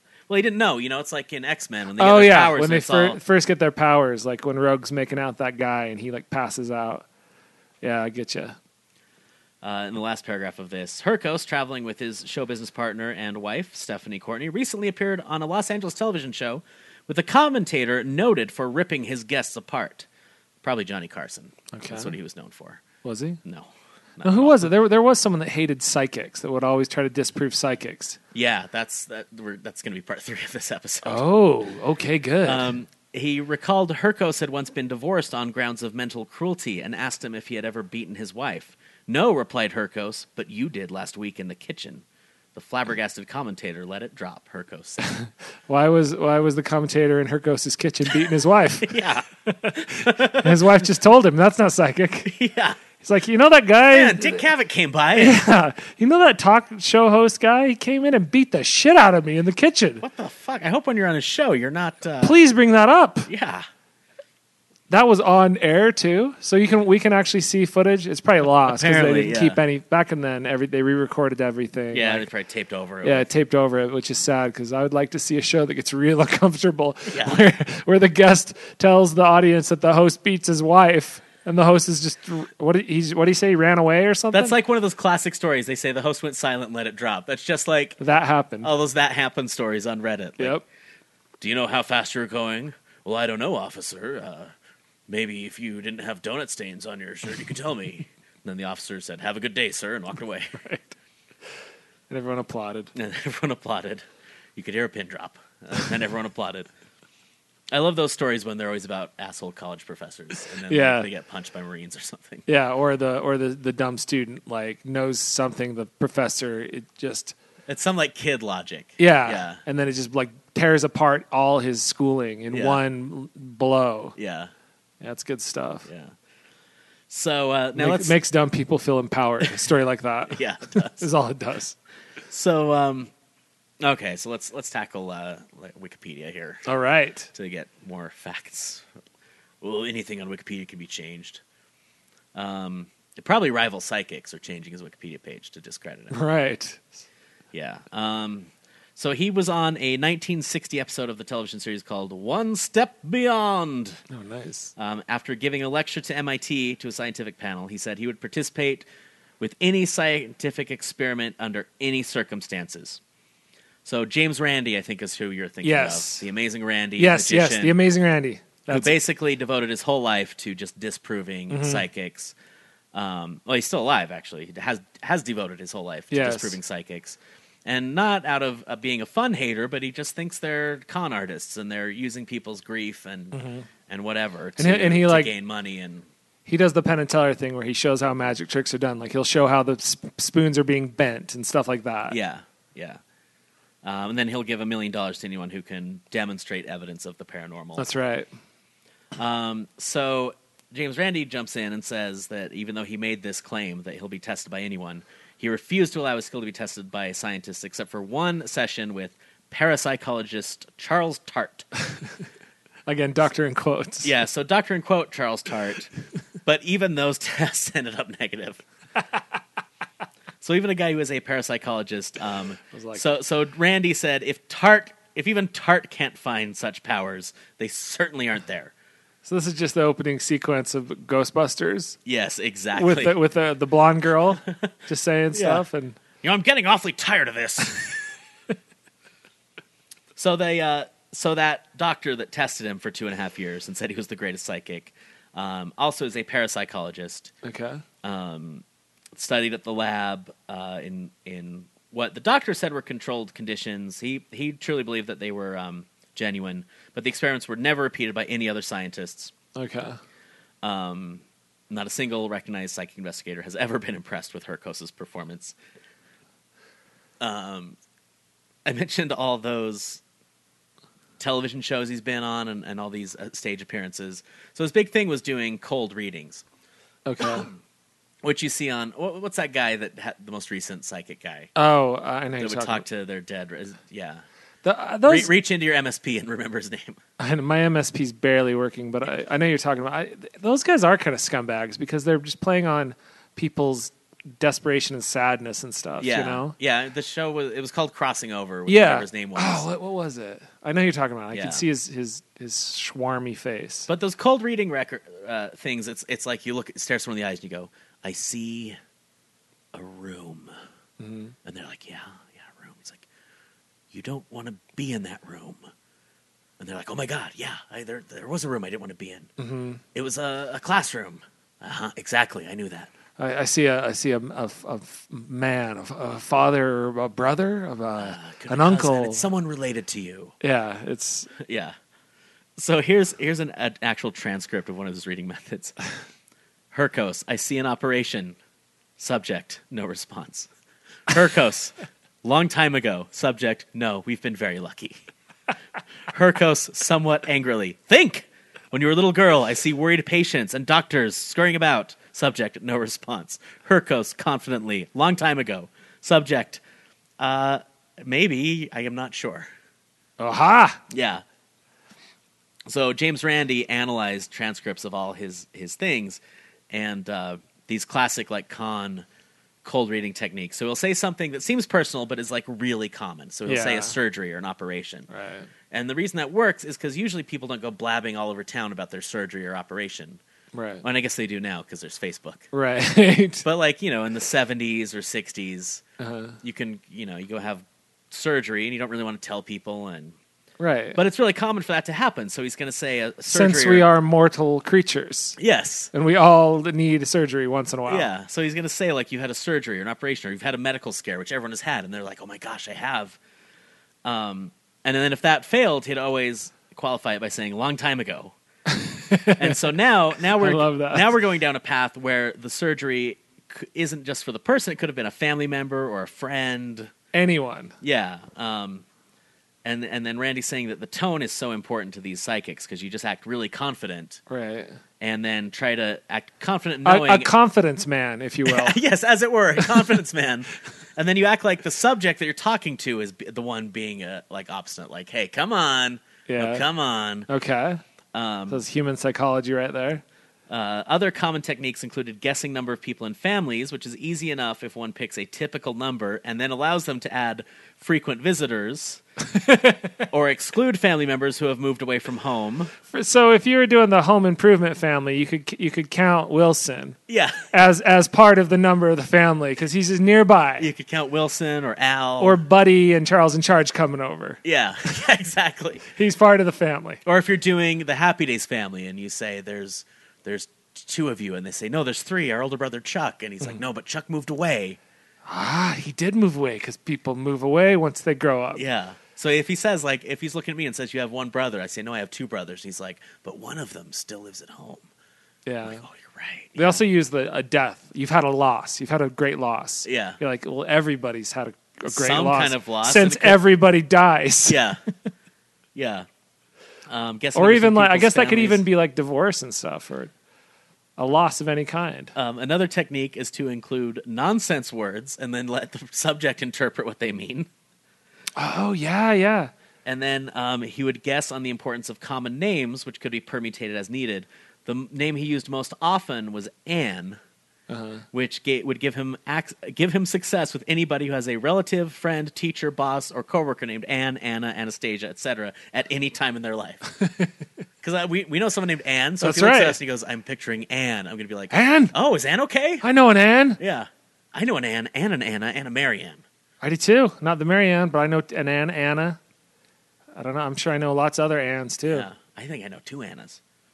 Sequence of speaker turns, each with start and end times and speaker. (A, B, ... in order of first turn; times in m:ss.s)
0:00.3-0:03.2 A
0:02.0-0:07.0 B
0:07.8-0:08.6 B
0:09.6-0:20.0 A
0:20.6-0:22.8 A
0:21.7-0:22.1 B
0:23.0-0:23.4 B
0:23.4-0:24.6 A
0:24.2-0:28.2 B
0:28.3-0:31.3 A
0:31.0-0:32.7 B
0:32.4-0:42.0 A
0:42.5-0:45.1 A
0:45.7-0:48.9 B
0:48.8-0:50.8 A
0:49.5-0:52.3 B
0:52.3-0:52.8 A
0:53.0-0:54.4 B
0:53.9-0:55.4 A
0:55.1-1:00.0 B
1:00.0-1:02.4 A
1:02.2-1:03.3 B
1:03.3-1:03.6 A
1:04.9-1:12.2 B
1:08.6-1:09.6 A
1:11.9-1:13.3 A
1:13.0-1:24.6 B
1:17.1-1:17.4 A
1:24.3-1:28.0 A
1:28.0-1:28.7 B
1:28.6-1:30.6 A
1:31.4-1:34.5 A
1:35.1-1:40.6 A
1:40.6-1:40.9 B
1:42.1-1:42.9 B
1:42.9-1:44.0 A
1:44.6-1:46.7 A
1:47.7-1:52.4 A
1:50.7-1:51.1 B
1:52.5-1:57.3 B
1:57.7-1:59.6 A
1:59.0-2:04.1 B
2:02.5-2:02.8 A
2:04.2-2:04.5 A
2:05.0-2:05.9 B
2:05.9-2:06.1 A
2:07.1-2:08.2 A
2:07.7-2:11.7 B
2:10.3-2:11.0 A
2:12.3-2:13.1 A
2:13.8-2:16.6 A
2:16.6-2:17.3 B
2:17.3-2:18.8 A
2:19.6-2:21.4 A
2:22.3-2:26.2 A
2:26.1-2:27.0 B
2:27.5-2:34.0 A
2:34.1-2:34.7 B
2:34.8-2:38.8 A
2:39.4-2:43.0 A
2:43.8-2:47.8 A
2:45.6-2:46.2 B
2:47.0-2:48.9 B
2:48.7-2:52.3 A
2:51.5-2:51.8 B
2:52.9-3:06.1 A
2:56.1-2:56.6 B
3:03.3-3:03.6 B
3:04.6-3:05.3 B
3:06.5-3:12.2 B
3:12.1-3:13.0 A
3:13.8-3:17.8 A
3:17.8-3:18.3 B
3:19.2-3:31.7 A
3:32.9-3:34.1 B
3:34.0-3:35.9 A
3:36.4-3:38.6 A
3:40.4-3:48.7 A
3:42.7-3:43.0 B
3:49.2-3:52.0 B
3:52.0-3:53.2 A
3:52.7-3:56.0 B
3:55.3-3:55.6 A
3:56.2-3:58.0 A
4:00.2-4:07.3 A
4:07.4-4:07.8 B
4:08.0-4:08.6 A
4:09.1-4:19.3 A
4:19.6-4:20.0 B
4:20.6-4:25.5 A
4:27.2-4:27.8 A
4:28.6-4:30.0 A
4:31.2-4:36.4 A
4:37.0-4:37.5 B
4:37.2-4:37.6 A
4:38.2-4:41.5 A
4:41.6-4:42.8 B
4:42.4-4:44.2 A
4:44.6-4:45.3 B
4:45.0-4:47.0 A
4:47.2-4:56.5 B
4:56.0-4:59.6 A
4:58.7-5:03.9 B
5:01.3-5:01.6 A
5:03.9-5:08.8 A
5:09.7-5:10.5 A
5:11.0-5:11.3 B
5:11.4-5:13.0 A
5:13.9-5:15.6 A
5:16.6-5:19.3 A
5:19.4-5:19.8 B
5:19.9-5:22.9 A
5:23.2-5:29.2 B
5:28.0-5:30.3 A
5:30.4-5:31.3 B
5:31.4-5:31.7 A
5:32.6-5:35.8 A
5:36.7-5:38.4 A
5:39.0-5:40.5 A
5:41.1-5:45.0 A
5:46.1-5:56.6 A
5:57.2-5:59.5 A
6:00.2-6:00.8 B
6:00.9-6:01.2 A
6:02.7-6:06.2 A
6:06.7-6:09.0 A
6:09.6-6:15.1 A
6:13.5-6:13.9 B
6:15.1-6:15.5 B
6:15.7-6:20.2 A
6:20.5-6:20.8 B
6:20.8-6:22.5 A
6:22.5-6:23.4 B
6:23.4-6:25.8 A
6:26.0-6:26.4 B
6:26.4-6:30.1 A
6:30.6-6:31.0 B
6:30.9-6:33.9 A
6:33.3-6:35.4 B
6:35.4-6:35.9 A
6:35.9-6:38.1 B
6:37.9-6:43.2 A
6:44.0-6:48.3 A
6:48.7-6:49.7 B
6:49.4-6:56.9 A
6:50.4-6:51.1 B
6:57.1-6:57.7 B
6:57.8-6:58.8 A
6:59.6-7:04.2 A
7:04.3-7:04.8 B
7:05.0-7:07.3 A
7:06.8-7:08.8 B
7:08.4-7:17.3 A
7:16.3-7:16.6 B
7:17.3-7:17.8 B
7:18.1-7:18.6 A
7:18.5-7:20.0 B
7:20.5-7:29.0 A
7:29.4-7:29.9 B
7:30.1-7:32.7 A
7:32.9-7:37.0 B
7:37.1-7:37.5 A
7:37.5-7:40.7 B
7:40.6-7:42.4 A
7:42.2-7:44.4 B
7:44.4-7:45.8 A
7:46.0-7:47.0 B
7:47.0-7:54.8 A
7:55.3-7:58.6 B
7:58.5-8:04.8 A
8:05.4-8:05.8 B
8:05.6-8:06.8 A
8:06.6-8:14.6 B
8:09.8-8:10.2 A
8:11.9-8:13.4 A
8:14.5-8:14.8 A
8:15.7-8:16.0 A
8:16.9-8:18.6 A
8:17.3-8:20.1 B
8:21.0-8:22.1 B
8:22.1-8:27.5 A
8:28.4-8:29.5 B
8:29.8-8:37.2 A
8:37.7-8:38.0 B
8:38.1-8:46.8 A
8:47.0-8:47.3 B
8:47.8-8:52.8 A
8:49.2-8:49.8 B
8:51.5-8:51.9 B
8:52.8-8:53.6 B
8:53.6-8:56.2 A
8:56.6-8:59.2 B
9:00.2-9:02.1 B
9:01.9-9:03.4 A